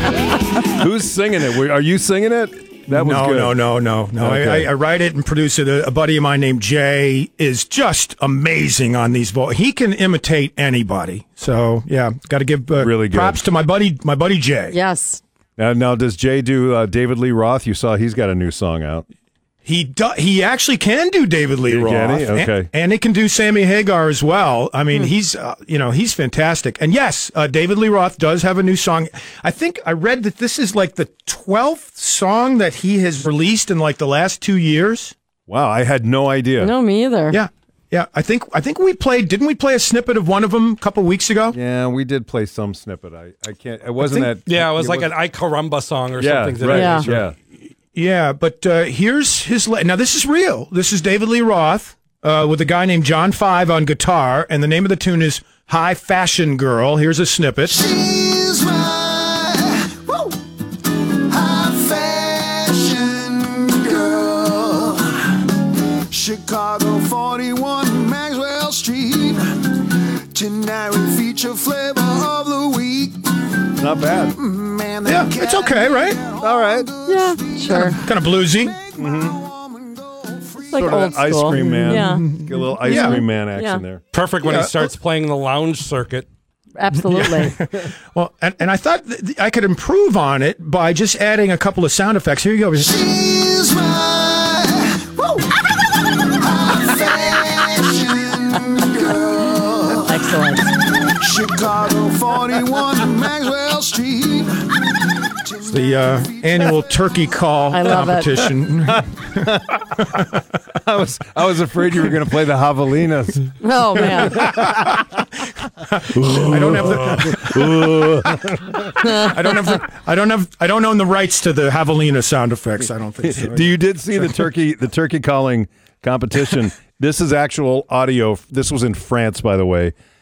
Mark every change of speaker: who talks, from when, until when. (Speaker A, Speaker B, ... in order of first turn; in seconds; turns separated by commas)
Speaker A: 0.6-3.6, Speaker B: 2.9-14.8, Speaker A: 4.2-4.7, Speaker A: 12.8-13.4, Speaker C: 14.7-15.2, Speaker A: 15.6-19.1, Speaker B: 19.6-35.1, Speaker A: 21.7-22.7, Speaker A: 35.5-36.7, Speaker C: 36.6-37.4, Speaker B: 37.3-41.6, Speaker A: 41.5-45.1, Speaker B: 44.0-44.3, Speaker D: 44.5-47.3, Speaker A: 46.2-47.4, Speaker C: 46.7-47.1, Speaker B: 48.0-57.9, Speaker E: 57.9-60.3, Speaker E: 61.3-65.3, Speaker E: 66.1-69.8, Speaker E: 70.3-73.3, Speaker A: 73.8-74.4, Speaker E: 74.5-78.0, Speaker B: 75.0-76.2, Speaker A: 76.4-76.9, Speaker C: 77.1-78.0, Speaker B: 78.0-78.8, Speaker A: 78.9-79.4, Speaker E: 79.8-80.6, Speaker C: 80.7-82.3, Speaker A: 80.7-84.0, Speaker B: 81.5-83.2, Speaker C: 82.8-83.8, Speaker D: 84.1-86.3, Speaker B: 84.4-84.9, Speaker C: 86.8-87.6, Speaker B: 87.1-93.1, Speaker E: 93.2-95.2, Speaker E: 96.6-100.0, Speaker C: 100.0-100.7, Speaker E: 101.2-104.6, Speaker B: 105.7-109.4, Speaker C: 107.7-108.3, Speaker A: 110.7-114.9, Speaker C: 113.6-114.4, Speaker B: 116.0-118.1, Speaker A: 116.1-119.2, Speaker B: 118.9-124.3, Speaker A: 123.2-129.9